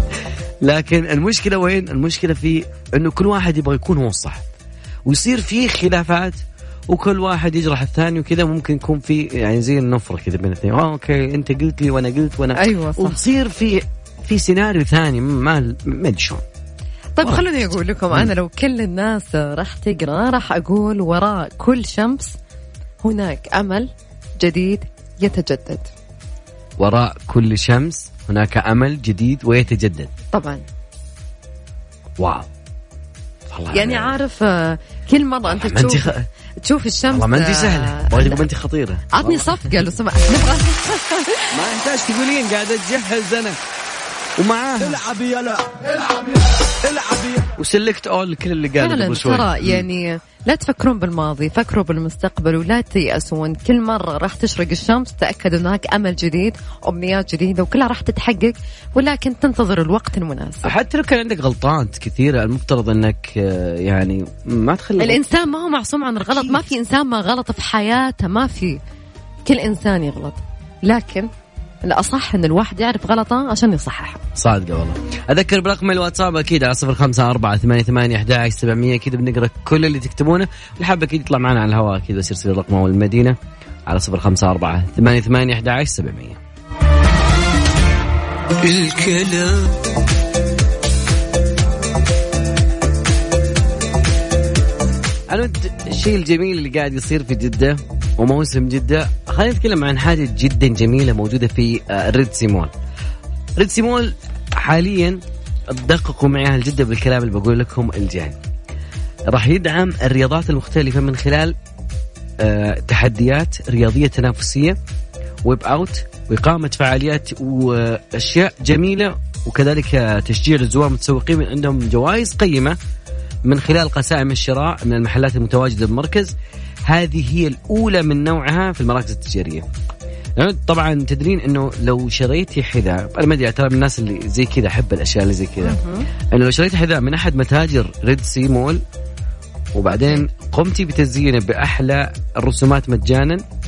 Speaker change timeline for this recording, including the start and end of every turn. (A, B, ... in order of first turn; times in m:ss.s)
0:00.6-0:04.4 A
0:05.0-0:16.4 A
0:12.6-0:13.2 B
0:17.2-0:22.3 B
0:17.2-0:18.3 A
0:23.0-0:23.9 B
0:24.4-0:25.9 B
0:26.8-0:30.1 A
0:30.3-0:30.6 B
0:32.2-0:32.5 A
0:33.5-0:34.1 A
0:33.7-0:36.1 B
0:35.5-0:36.2 A
0:36.6-0:38.4 B
0:37.1-0:39.9 A
0:39.1-0:41.5 B
0:41.5-0:43.6 A
0:44.4-0:45.0 A
0:44.8-0:47.5 C
0:47.5-0:49.8 A
0:48.8-1:00.7 B
1:00.6-1:05.2 A
1:05.0-1:08.8 B
1:09.4-1:11.3 B
1:11.8-1:14.2 B
1:14.4-1:23.4 A
1:23.9-1:26.4 A
1:28.6-1:29.7 A
1:35.3-1:42.7 A
1:43.6-1:48.3 A
1:49.3-1:51.6 A
1:52.4-1:54.8 A
1:55.4-2:02.8 A
2:03.4-2:06.3 A
2:06.8-2:09.6 A
2:10.4-2:15.8 A
2:15.6-2:16.0 B
2:16.3-2:18.8 A
2:19.7-2:23.4 A